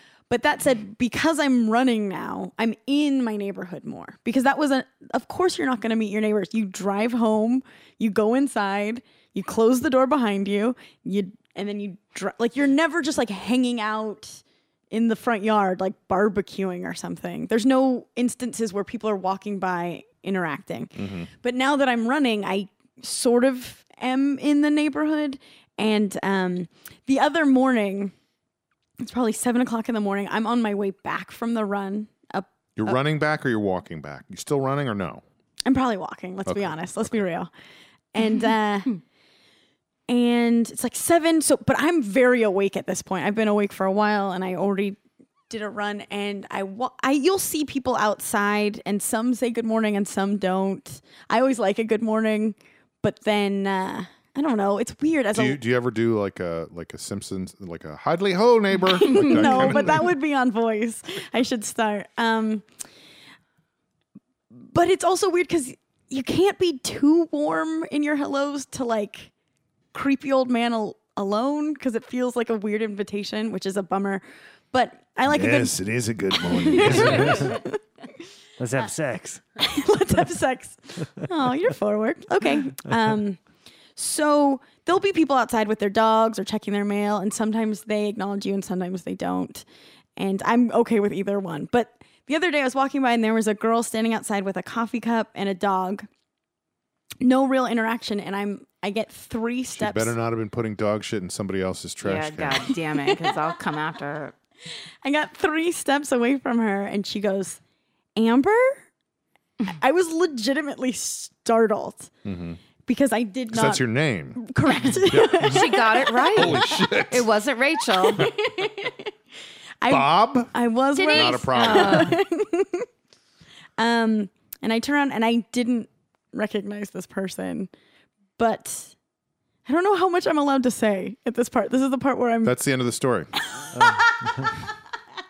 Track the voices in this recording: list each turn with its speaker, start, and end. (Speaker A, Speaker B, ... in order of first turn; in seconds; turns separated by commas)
Speaker A: 0.3-28.1, Speaker B: 21.0-21.3, Speaker A: 29.0-32.5, Speaker B: 32.8-35.2, Speaker A: 35.6-37.5, Speaker B: 36.5-36.8, Speaker A: 38.1-39.0, Speaker A: 40.1-45.0, Speaker A: 45.5-55.6, Speaker B: 55.3-60.1, Speaker A: 59.0-62.6, Speaker C: 59.0-59.9, Speaker A: 64.5-69.3, Speaker A: 69.9-75.7, Speaker B: 75.3-77.5, Speaker A: 76.4-77.8, Speaker D: 77.0-77.5, Speaker D: 78.6-79.4, Speaker A: 79.6-83.4, Speaker A: 84.0-89.7, Speaker A: 90.2-96.1, Speaker A: 97.2-100.2, Speaker B: 99.8-102.7, Speaker C: 102.0-104.3, Speaker A: 105.0-107.6, Speaker A: 108.2-108.8, Speaker A: 109.7-112.1, Speaker B: 112.2-112.6, Speaker A: 112.9-113.8, Speaker B: 113.5-117.3, Speaker A: 114.4-116.6, Speaker C: 115.3-118.3, Speaker A: 118.2-119.1, Speaker A: 119.8-122.9, Speaker B: 119.9-120.5, Speaker C: 121.0-122.2, Speaker B: 121.1-122.2, Speaker A: 123.8-127.7, Speaker A: 128.4-128.9, Speaker A: 129.7-132.5, Speaker B: 132.4-133.3, Speaker A: 133.6-134.6, Speaker D: 133.7-134.5